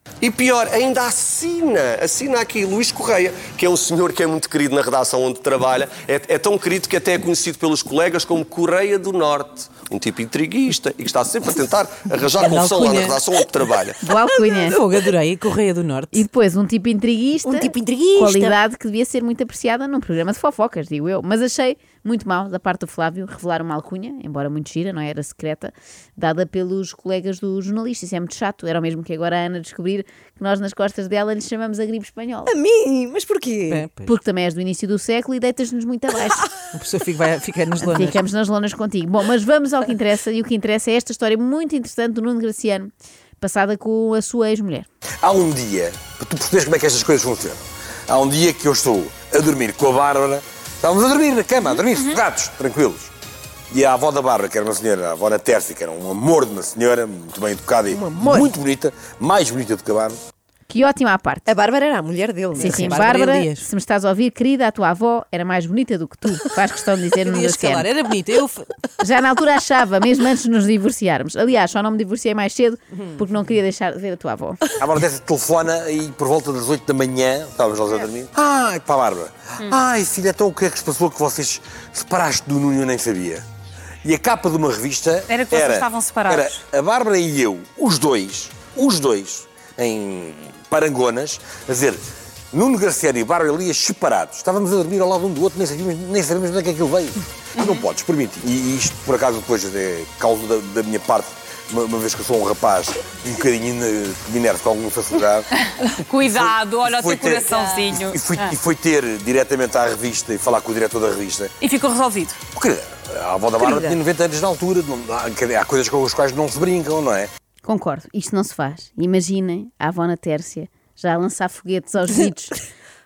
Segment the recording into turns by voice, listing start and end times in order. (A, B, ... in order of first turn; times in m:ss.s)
0:00.2-0:14.0 A
0:12.3-0:13.2 B
0:14.0-0:14.8 C
0:14.7-0:16.2 B
0:16.1-0:32.5 C
0:17.4-0:18.6 D
0:32.4-0:33.8 D
0:33.7-0:34.1 B
0:34.0-0:36.5 C
0:36.7-0:38.2 B
0:37.8-0:44.9 C
0:45.2-0:53.1 E
0:53.7-1:00.2 E
0:57.9-0:58.5 D
1:00.7-1:01.5 C
1:01.5-1:03.2 D
1:02.5-1:03.7 B
1:02.5-1:07.9 C
1:07.2-1:08.6 B
1:09.0-1:14.6 C
1:14.8-1:23.4 E
1:24.0-1:32.0 E
1:25.3-1:26.5 F
1:32.5-1:45.5 E
1:45.8-1:48.2 F
1:46.2-1:51.5 E
1:51.6-1:52.4 F
1:52.5-1:57.3 E
1:53.6-1:54.0 D
1:57.6-2:02.6 C